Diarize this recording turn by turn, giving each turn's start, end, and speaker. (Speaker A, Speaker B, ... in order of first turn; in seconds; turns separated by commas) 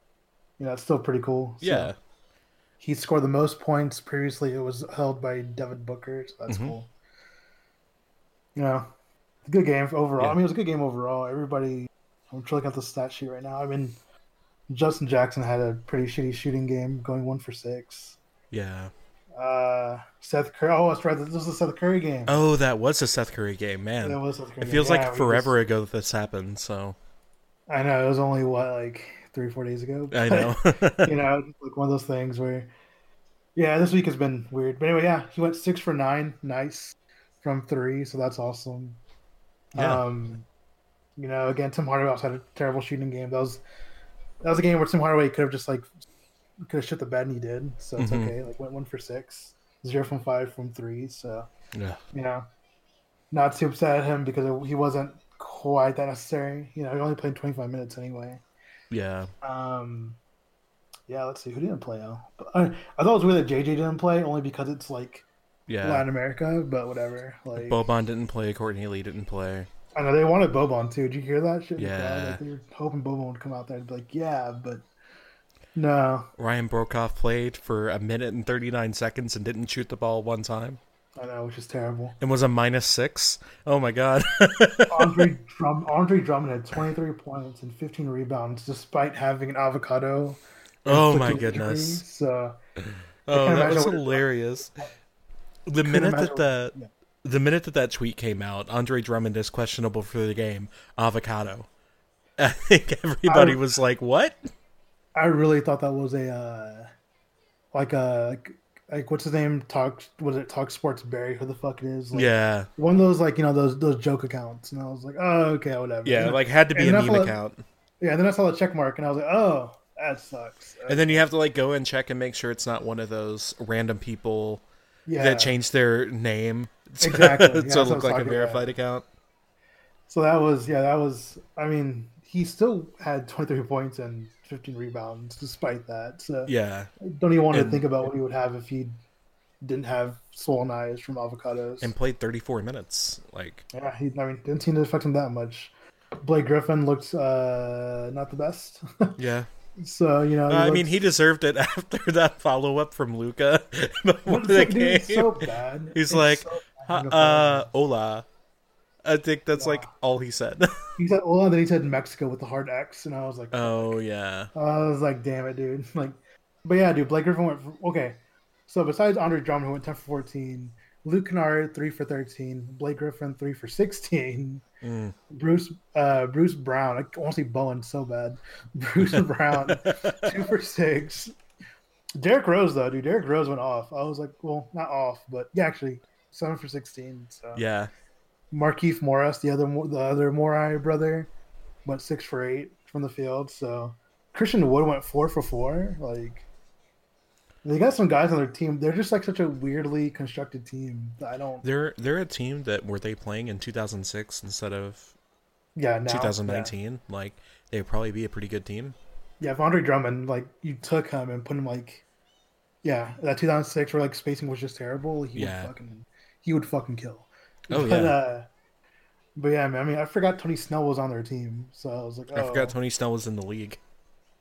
Speaker A: 0.6-1.9, Speaker B: 1.6-1.9, Speaker A: 2.8-6.9, Speaker B: 6.5-6.7, Speaker A: 8.5-8.9, Speaker A: 9.4-14.0, Speaker A: 14.7-18.2, Speaker B: 18.5-18.9, Speaker A: 19.3-22.3, Speaker B: 22.3-26.9, Speaker A: 24.0-25.5, Speaker A: 27.7-32.7, Speaker B: 30.1-31.1, Speaker A: 33.5-39.0, Speaker A: 39.7-40.5, Speaker B: 39.8-40.0, Speaker A: 41.2-43.6, Speaker A: 44.4-45.9, Speaker A: 46.6-51.5, Speaker B: 48.0-48.3, Speaker B: 51.7-52.0, Speaker A: 52.1-52.5, Speaker A: 53.3-58.4, Speaker B: 58.9-59.3, Speaker A: 59.4-60.2, Speaker A: 61.1-65.2, Speaker B: 65.7-66.0, Speaker A: 65.8-67.8, Speaker B: 67.5-69.7, Speaker A: 70.0-74.8, Speaker B: 71.8-72.4, Speaker A: 75.7-76.3, Speaker B: 76.4-80.8, Speaker A: 81.2-82.2, Speaker B: 82.2-85.3, Speaker A: 84.9-92.6, Speaker B: 90.8-92.0, Speaker B: 93.3-94.9, Speaker A: 93.3-94.2, Speaker B: 95.7-101.7, Speaker A: 95.8-96.9, Speaker B: 102.4-104.3, Speaker A: 103.2-103.6, Speaker A: 105.1-106.9, Speaker A: 107.7-117.3, Speaker B: 112.1-112.7, Speaker B: 116.0-117.6, Speaker A: 118.0-121.2, Speaker B: 120.9-124.6, Speaker A: 125.1-125.5, Speaker B: 125.2-129.0, Speaker A: 127.0-128.7, Speaker A: 130.1-138.9, Speaker B: 136.4-136.9, Speaker B: 137.5-137.8, Speaker A: 139.6-141.9, Speaker B: 141.8-143.6, Speaker A: 143.7-149.2, Speaker B: 149.2-149.5, Speaker A: 149.8-151.0, Speaker B: 150.5-158.2, Speaker A: 154.2-157.7, Speaker B: 159.0-160.8, Speaker A: 159.6-159.9, Speaker A: 160.9-164.0, Speaker B: 163.5-164.5, Speaker A: 164.5-174.6, Speaker B: 174.8-175.1, Speaker A: 175.3-181.3, Speaker B: 179.0-180.3, Speaker A: 182.2-187.6, Speaker B: 187.5-187.9, Speaker A: 188.5-191.3, Speaker A: 191.8-196.5, Speaker A: 197.6-201.7, Speaker B: 201.6-205.1, Speaker A: 205.8-206.7, Speaker B: 206.1-209.0, Speaker A: 209.4-212.0, Speaker A: 212.8-218.5, Speaker B: 215.3-215.7, Speaker B: 217.7-218.2, Speaker A: 219.3-222.7, Speaker B: 222.3-223.8